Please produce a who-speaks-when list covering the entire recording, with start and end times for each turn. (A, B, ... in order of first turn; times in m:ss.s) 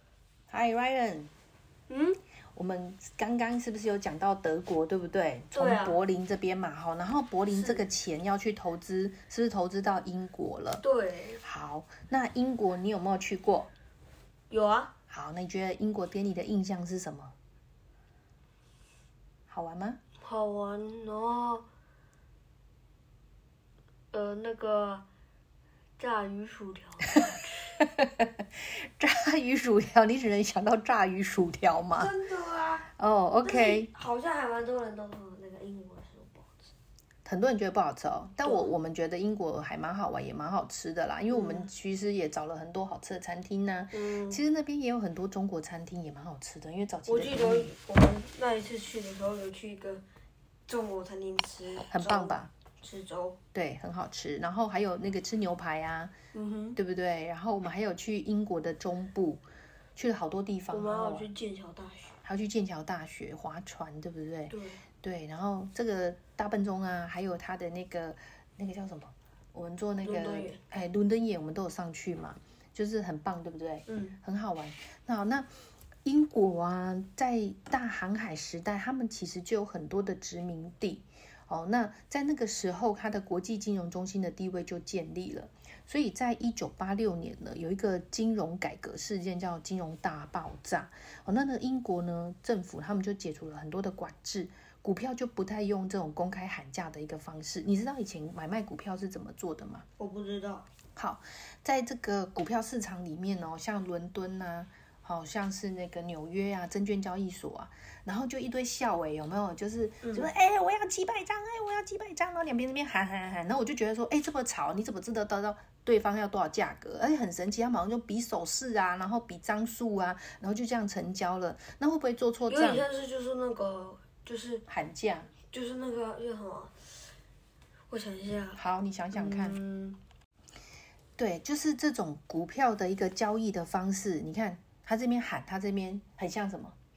0:00.5-0:01.3 A
0:01.9-0:02.2 B
0:02.6-0:10.8 A
0:05.5-0:06.0 B
0:07.5-0:07.8 B
0:10.8-0:11.4 B
0:11.4-0:13.7 A
0:14.5-0:14.9 B
0:15.1-0:17.3 A
0:19.5-0:20.0 A
0:20.2-0:21.7 B
0:24.1-0:25.0 B
0:26.0-0:27.7 B
0:27.8-0:32.1 A
0:32.0-0:32.9 B
0:33.0-0:33.9 A
0:33.4-0:36.7 B
0:37.2-0:47.7 A
0:38.4-0:38.7 B
0:41.3-0:41.7 B
0:43.9-0:44.4 B
0:47.0-0:50.0 B
0:50.7-0:53.4 B
0:51.9-0:52.5 A
0:53.5-0:56.1 A
0:56.3-0:56.8 B
0:56.8-0:59.4 A
1:00.0-1:01.3 A
1:00.7-1:02.2 B
1:02.2-1:15.5 A
1:04.5-1:04.8 B
1:10.0-1:10.6 B
1:13.9-1:14.2 B
1:16.0-1:39.9 A
1:40.0-1:40.7 B
1:41.0-2:02.9 A
1:50.0-1:50.3 B
2:02.5-2:04.6 B
2:04.7-2:05.3 A
2:05.5-2:06.7 B
2:07.9-2:08.6 B
2:08.6-2:09.6 A
2:09.1-2:10.0 B
2:11.2-2:16.8 A